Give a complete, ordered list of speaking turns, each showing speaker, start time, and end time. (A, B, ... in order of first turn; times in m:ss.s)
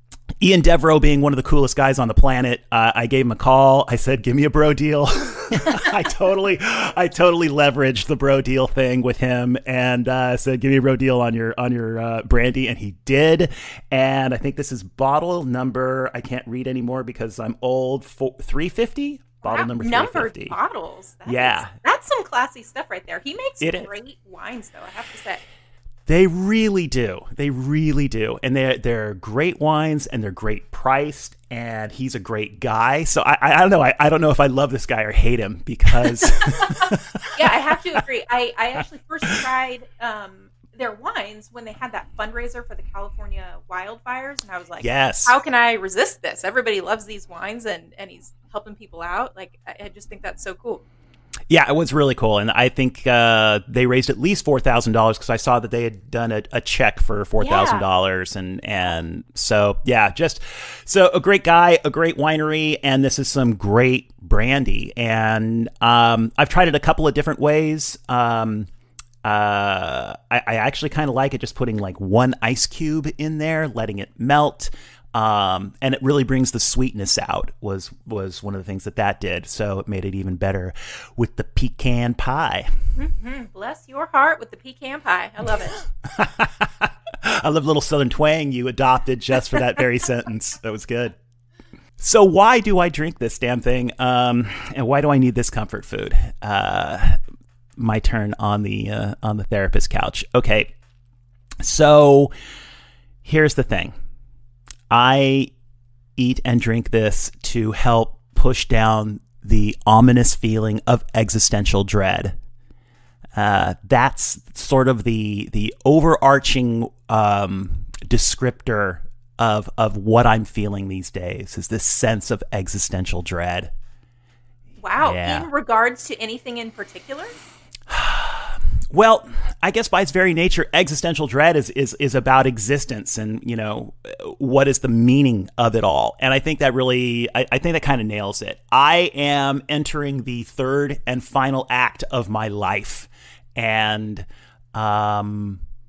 0:00.4-0:20.6 A
0:19.4-0:25.4 B
0:21.2-0:21.7 A
0:23.6-0:23.9 A
0:26.1-0:37.6 A
0:36.4-0:36.8 B
0:37.3-0:50.8 B
0:44.8-0:45.3 A
0:51.5-1:08.7 A
0:57.4-0:57.8 B
1:09.2-1:22.7 A
1:23.0-1:25.8 B
1:26.0-1:31.1 A
1:32.0-1:37.2 A
1:37.8-1:40.7 A
1:41.6-1:42.3 A
1:43.2-1:43.9 A
1:44.9-1:45.5 A
1:46.2-1:52.4 A
1:53.4-2:03.7 A
2:04.8-2:07.3 B
2:05.0-2:05.5 A
2:07.9-2:25.6 A